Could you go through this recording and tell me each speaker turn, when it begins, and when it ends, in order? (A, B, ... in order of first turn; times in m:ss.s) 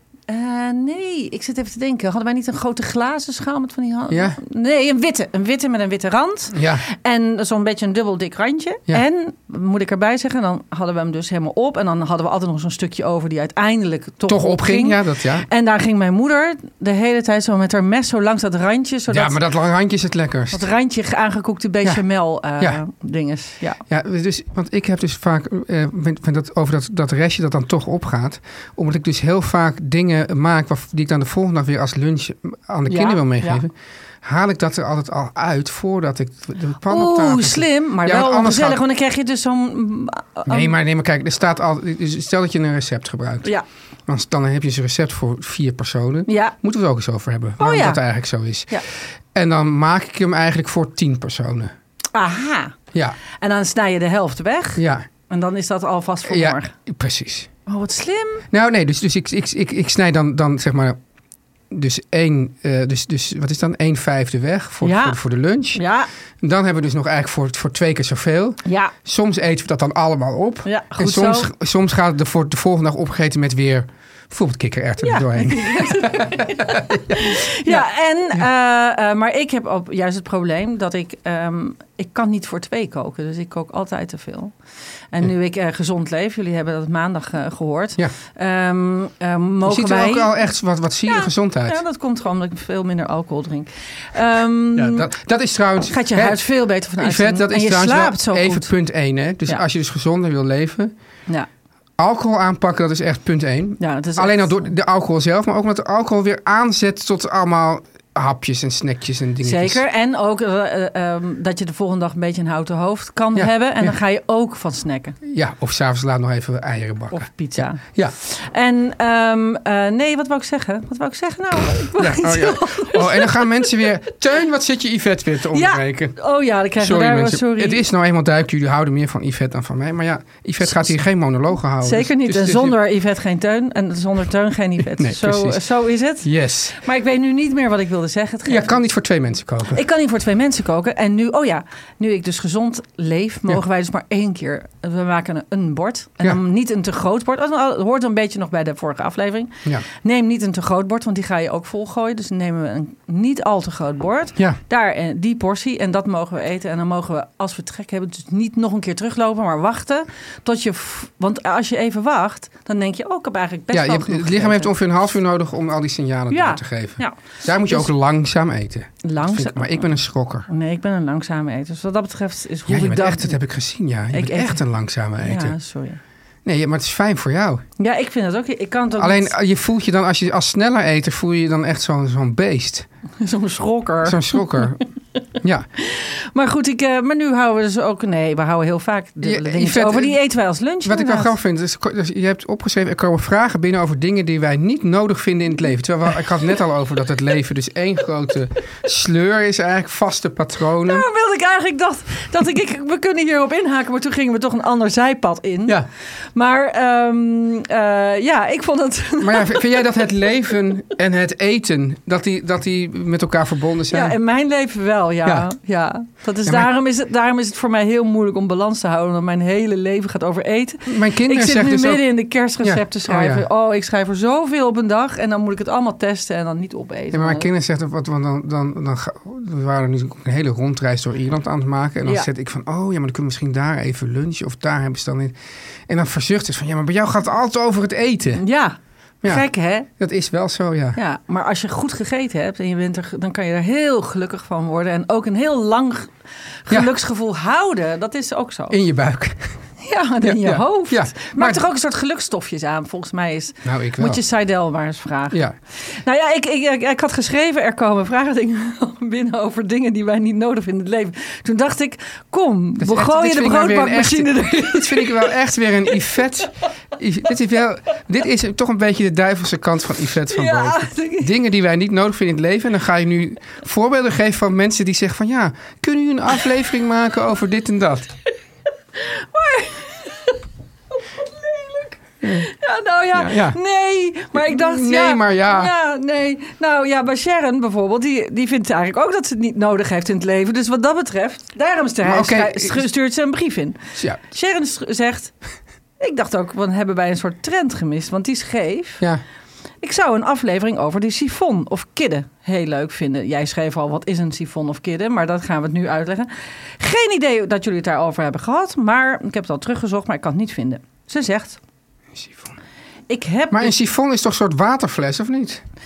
0:00.3-0:19.4 A
0:04.1-0:04.4 B
0:06.5-0:06.8 B
0:14.3-0:15.4 B
0:19.1-0:20.6 B
0:20.5-0:23.8 A
0:23.9-0:38.8 B
0:32.9-0:33.6 A
0:36.9-0:40.7 A
0:40.5-0:43.5 B
0:44.1-0:48.8 B
0:46.3-0:46.6 A
0:47.6-0:48.0 A
0:49.3-0:51.7 B
0:52.1-0:52.7 A
0:53.4-0:56.7 A
0:54.8-0:55.0 B
0:56.2-0:57.5 B
0:57.7-0:58.4 A
0:58.5-1:01.0 B
1:01.7-1:05.8 B
1:04.8-1:05.2 A
1:05.7-1:06.1 A
1:06.4-1:17.8 B
1:08.6-1:08.9 A
1:10.6-1:11.5 A
1:15.0-1:24.5 A
1:25.1-1:30.3 A
1:29.6-1:31.8 B
1:31.0-1:35.1 A
1:34.7-1:36.4 B
1:35.9-1:38.7 A
1:37.0-1:40.9 B
1:42.0-1:49.8 B
1:43.8-1:44.7 A
1:49.4-1:55.2 A
1:53.3-1:54.0 B
1:55.2-1:58.1 B
1:57.1-2:03.8 A
2:01.8-2:06.2 B
2:05.5-2:07.8 A
2:06.8-2:12.8 B
2:10.6-2:10.9 A
2:11.8-2:18.8 A
2:15.0-2:15.6 B
2:16.2-2:16.7 B
2:18.4-2:19.8 B
2:19.7-2:44.7 A
2:43.7-2:50.5 B
2:46.3-2:47.9 A
2:49.0-2:49.9 A
2:50.5-2:53.4 A
2:52.7-2:55.6 B
2:54.1-2:54.6 A
2:55.2-2:56.0 A
2:56.4-2:57.6 B
2:57.8-2:59.3 A
2:59.0-3:02.9 B
3:03.2-3:04.7 A
3:04.0-3:04.8 B
3:05.4-3:05.7 B
3:05.8-3:11.3 A
3:09.2-3:10.2 B
3:10.8-3:21.0 B
3:20.8-3:25.8 A
3:26.3-3:30.0 A
3:29.2-3:34.2 B
3:33.9-3:47.5 A
3:36.4-3:36.7 B
3:40.8-3:42.0 B
3:42.6-3:43.4 B
3:47.1-3:55.4 B
3:55.9-3:58.4 B
3:58.4-3:59.9 A
3:59.2-4:01.0 B
4:01.0-4:06.1 A
4:06.7-4:08.8 A
4:08.7-4:09.5 B
4:09.8-4:25.4 A
4:10.2-4:11.6 B
4:13.6-4:14.2 B
4:22.8-4:38.1 B
4:25.9-4:26.2 A
4:30.3-4:31.3 A
4:38.9-4:40.4 A
4:41.0-4:55.3 A
4:42.2-4:42.5 B
4:43.1-4:43.6 B
4:44.3-4:45.7 B
4:52.0-4:52.9 B
4:56.0-4:59.0 A
4:59.8-5:11.6 A
5:12.1-5:12.5 B
5:13.1-5:13.8 A
5:13.5-5:15.6 B